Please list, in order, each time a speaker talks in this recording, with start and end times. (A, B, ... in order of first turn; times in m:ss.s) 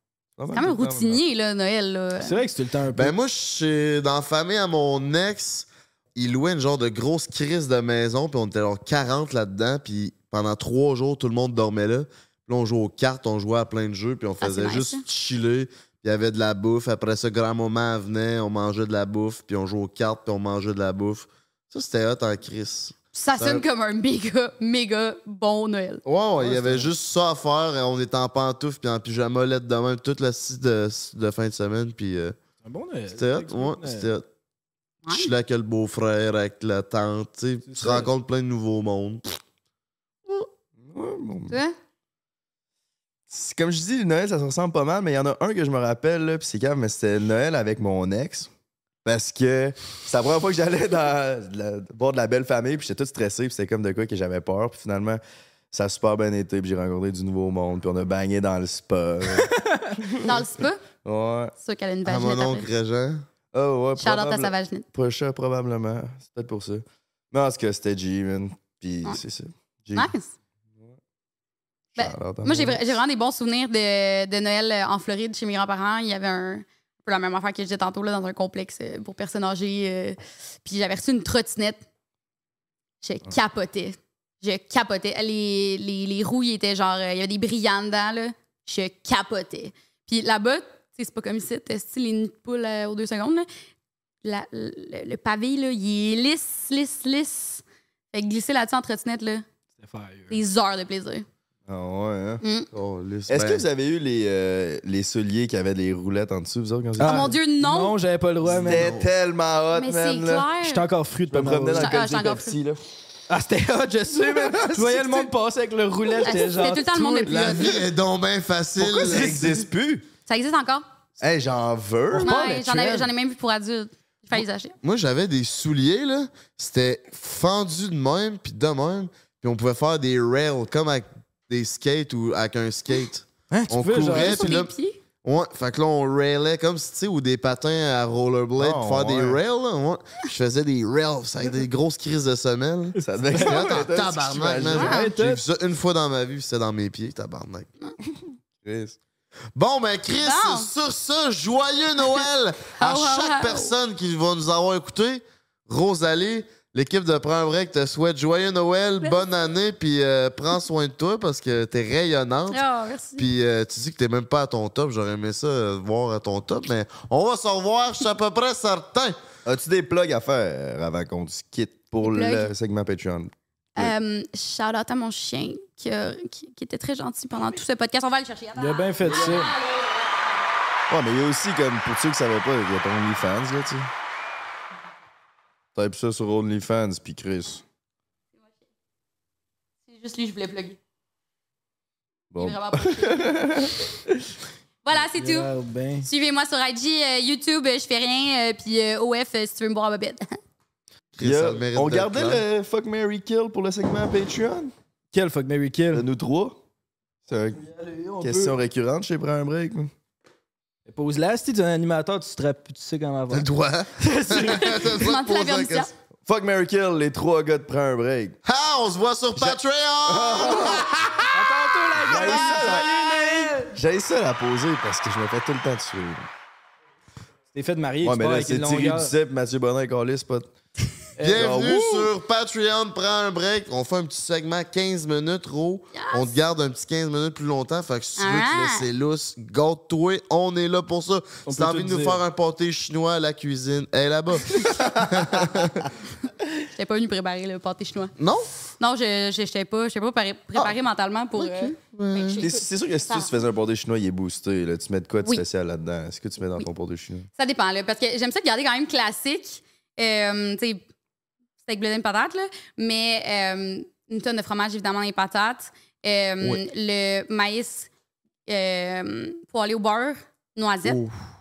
0:00.4-0:01.2 A
0:00.5-0:02.4 B
0:02.2-0:03.1 C
0:02.9-0:23.6 D
0:14.4-0:15.0 B
0:23.1-0:26.0 B
0:26.0-0:32.4 D
0:26.5-0:26.9 C
0:32.6-0:34.1 C
0:33.1-0:34.2 D
0:35.0-0:35.3 B
0:35.1-0:39.2 D
0:37.7-0:38.1 C
0:40.8-0:41.6 A
0:41.5-0:41.7 B
0:43.3-0:48.5 A
0:49.0-0:55.2 A
0:55.7-1:00.3 A
0:59.4-0:59.9 C
1:00.2-1:00.8 B
1:01.0-1:01.5 A
1:01.6-1:02.7 B
1:02.0-1:03.2 D
1:03.5-1:10.1 A
1:04.0-1:04.8 B
1:09.9-1:10.3 B
1:11.9-1:13.0 A
1:12.0-1:21.8 B
1:23.0-1:33.5 B
1:34.2-1:39.4 B
1:39.8-1:40.4 C
1:40.3-1:41.2 B
1:41.7-1:42.4 A
1:42.4-1:42.7 B
1:42.7-1:43.6 D
1:43.3-1:47.3 A
1:47.0-1:48.8 C
1:47.0-1:48.0 B
1:48.4-1:49.1 D
1:48.5-1:50.5 A
1:49.7-1:50.9 B
1:50.6-1:51.9 C
1:51.3-1:52.8 A
1:51.8-1:52.6 B
1:53.3-1:57.8 C
1:54.1-1:55.3 A
1:56.2-1:57.8 B
1:57.2-1:59.4 D
1:58.9-1:59.5 C
1:58.9-2:00.0 A
2:00.3-2:00.8 B
2:01.2-2:02.4 A
2:02.1-2:03.1 C
2:02.2-2:04.7 B
2:04.8-2:14.7 D
2:13.5-2:14.6 C
2:14.0-2:15.0 B
2:15.2-2:27.7 D
2:18.6-2:19.4 A
2:23.0-2:23.8 C
2:23.0-2:24.9 A
2:24.7-2:25.4 C
2:24.8-2:25.1 B
2:28.1-2:29.0 A
2:29.5-2:42.6 D
2:30.2-2:30.7 B
2:32.8-2:33.7 B
2:42.5-2:43.2 B
2:43.2-2:49.2 D
2:49.4-2:53.9 A
2:52.0-2:52.5 B
2:53.8-3:00.4 B
2:58.6-2:59.5 C
3:00.9-3:03.9 A
3:05.7-3:07.6 A
3:09.9-3:10.8 B
3:12.3-3:14.2 A
3:12.4-3:13.4 B
3:14.8-3:15.5 B
3:14.9-3:16.1 C
3:16.0-3:20.4 B
3:21.1-3:22.4 D
3:21.2-3:24.7 A
3:25.1-3:26.0 C
3:25.9-3:26.6 A
3:27.3-3:27.6 A
3:27.5-3:28.6 C
3:28.2-3:29.9 A
3:30.8-3:34.9 C
3:33.3-3:35.9 D
3:34.8-3:35.9 B
3:36.2-3:38.4 A
3:38.4-3:41.5 D
3:39.4-3:40.9 A
3:41.3-3:43.7 C
3:42.0-3:42.9 A
3:42.1-3:43.3 D
3:43.7-3:46.3 A
3:47.5-3:49.1 C
3:48.0-3:50.5 A
3:51.2-3:51.7 C
3:51.2-4:05.9 D
3:51.2-3:52.1 A
3:55.9-3:56.4 B
3:58.2-3:58.9 B
4:01.4-4:02.2 C
4:06.7-4:08.1 B
4:08.2-4:08.5 D
4:08.8-4:13.3 B
4:11.4-4:12.4 D
4:12.4-4:17.3 A
4:17.4-4:20.8 B
4:21.6-4:27.9 B
4:28.5-4:31.0 B
4:30.8-4:31.1 D